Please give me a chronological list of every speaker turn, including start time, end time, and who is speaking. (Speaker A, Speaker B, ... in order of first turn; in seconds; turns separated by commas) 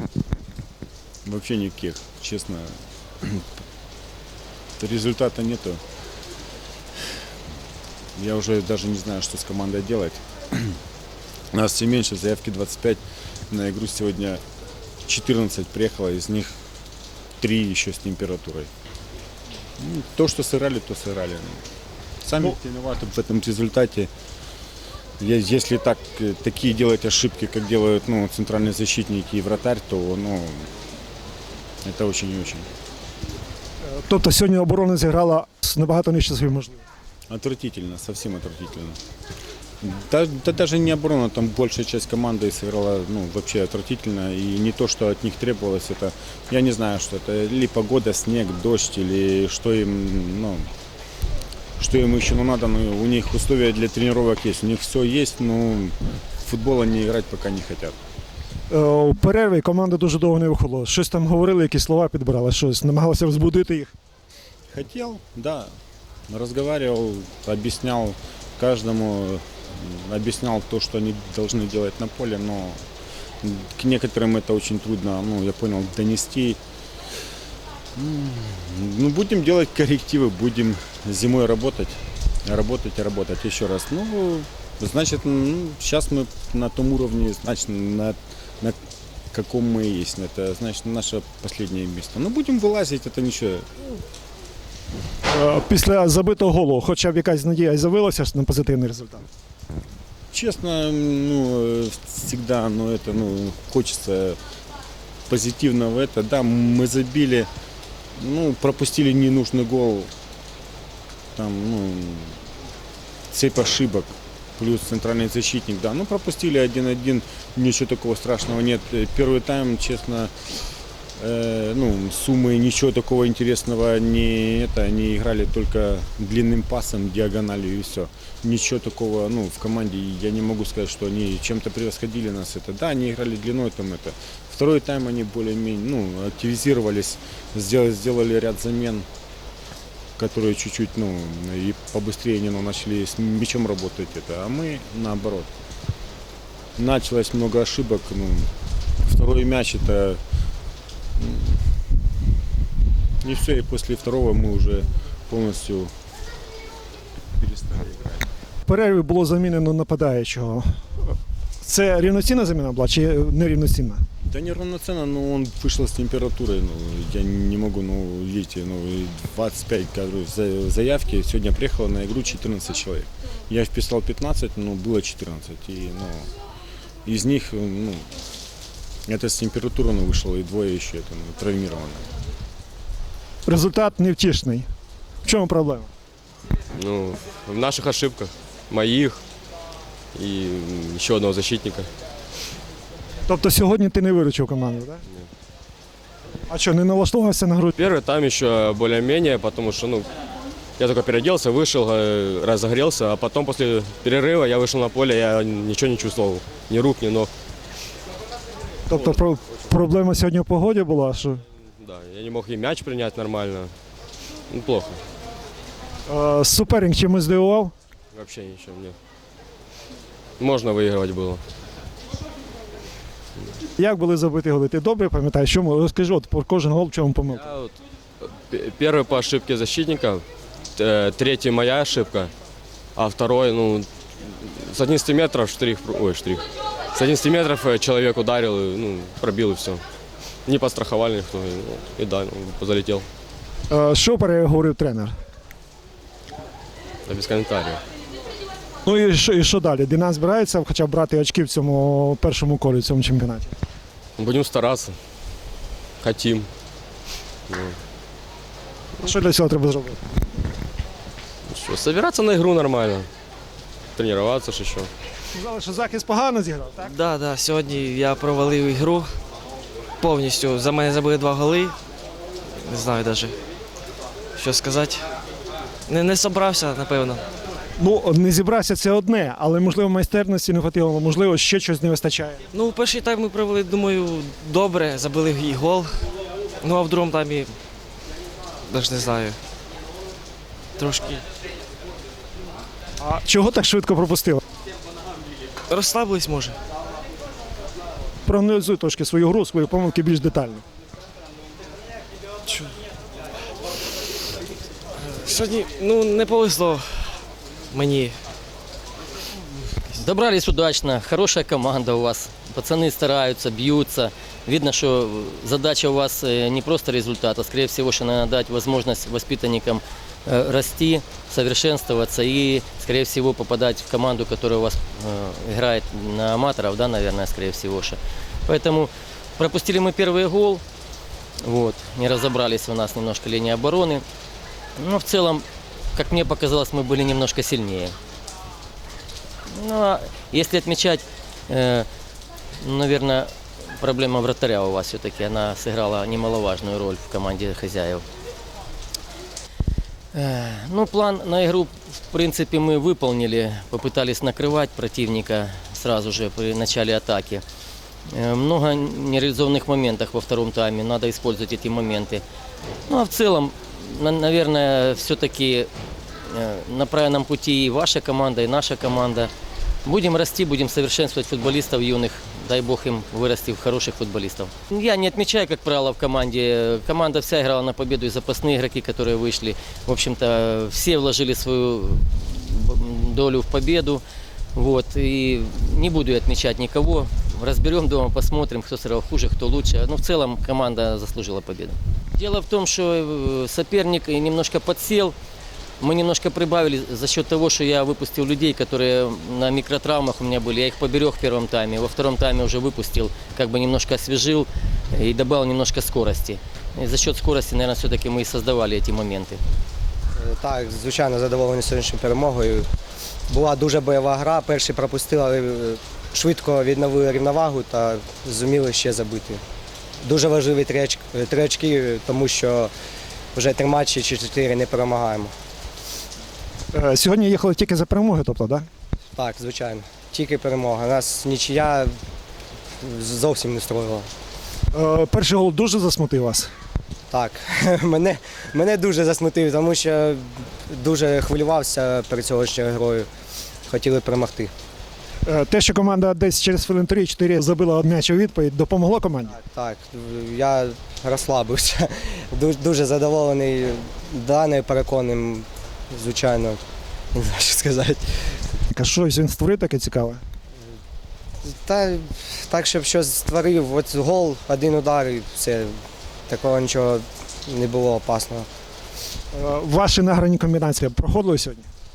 Speaker A: 1.2-3.4, Speaker A: 4.8-5.8, Speaker A: 8.2-10.8, Speaker A: 11.5-14.4, Speaker A: 15.1-16.5, Speaker A: 17.4-18.7, Speaker A: 19.8-21.6, Speaker A: 22.2-24.1, Speaker A: 25.2-30.7, Speaker A: 31.8-32.7, Speaker B: 33.9-36.8, Speaker A: 37.3-39.0, Speaker A: 39.8-50.7, Speaker A: 51.8-58.0, Speaker B: 58.7-63.9, Speaker A: 64.7-65.7, Speaker A: 66.3-72.8, Speaker A: 73.4-76.6, Speaker A: 78.0-88.8, Speaker A: 89.3-93.7, Speaker B: 95.3-99.3, Speaker A: 100.3-104.4, Speaker A: 105.3-107.5, Speaker A: 108.2-110.1, Speaker A: 111.3-112.4, Speaker A: 113.3-120.3, Speaker A: 121.2-139.1, Speaker A: 140.2-145.5, Speaker A: 146.8-148.5, Speaker A: 149.0-150.2, Speaker A: 151.2-151.8, Speaker A: 153.2-155.9, Speaker A: 157.4-158.2, Speaker B: 158.7-160.8, Speaker B: 161.6-164.0, Speaker A: 164.3-176.3, Speaker A: 177.1-178.1, Speaker A: 179.1-182.1, Speaker B: 183.5-184.7, Speaker B: 185.2-185.9, Speaker C: 186.7-189.2, Speaker C: 190.1-191.9, Speaker B: 193.3-195.0, Speaker B: 196.5-197.8, Speaker C: 197.8-200.1, Speaker C: 200.8-207.3, Speaker B: 208.9-211.4, Speaker C: 211.8-213.7, Speaker C: 214.5-215.0, Speaker B: 216.1-217.7, Speaker C: 218.1-218.9, Speaker C: 220.4-221.4, Speaker B: 223.8-227.5, Speaker C: 227.5-227.8, Speaker C: 228.5-230.2, Speaker C: 230.8-232.3, Speaker C: 233.0-239.8, Speaker C: 240.5-243.1, Speaker B: 243.7-245.2, Speaker C: 247.1-247.8, Speaker B: 248.8-253.5, Speaker C: 254.2-255.0, Speaker C: 256.0-256.5, Speaker C: 257.5-257.8, Speaker B: 259.0-260.0, Speaker C: 261.5-263.1, Speaker C: 264.0-264.9, Speaker B: 265.3-266.9, Speaker D: 266.8-269.1, Speaker D: 270.0-271.7, Speaker D: 272.6-273.4, Speaker D: 274.4-275.1, Speaker D: 275.9-277.2, Speaker B: 277.8-282.4, Speaker D: 282.5-286.1, Speaker D: 286.6-287.5, Speaker D: 288.7-289.4, Speaker D: 290.8-291.2, Speaker B: 293.0-294.4, Speaker D: 295.7-296.6, Speaker B: 298.2-300.6, Speaker D: 302.5-302.7, Speaker D: 305.1-308.2, Speaker E: 310.0-330.6, Speaker E: 331.4-334.0, Speaker E: 334.8-337.9, Speaker E: 339.5-341.9, Speaker E: 342.6-348.1, Speaker E: 350.1-357.4, Speaker E: 358.1-362.2, Speaker E: 362.9-365.7, Speaker E: 366.3-369.3, Speaker E: 369.9-384.0, Speaker E: 384.6-395.1, Speaker E: 395.8-409.4, Speaker F: 410.2-412.7, Speaker F: 413.3-419.4, Speaker F: 420.0-422.7, Speaker F: 423.4-425.3, Speaker B: 426.7-428.7, Speaker F: 429.1-432.0, Speaker F: 432.8-434.1, Speaker B: 434.7-436.5, Speaker F: 437.1-443.1, Speaker F: 443.7-444.5, Speaker B: 445.3-449.3, Speaker F: 449.3-456.6, Speaker F: 457.1-458.3, Speaker B: 458.7-460.2, Speaker F: 461.4-465.7, Speaker F: 466.3-468.5, Speaker B: 469.3-471.7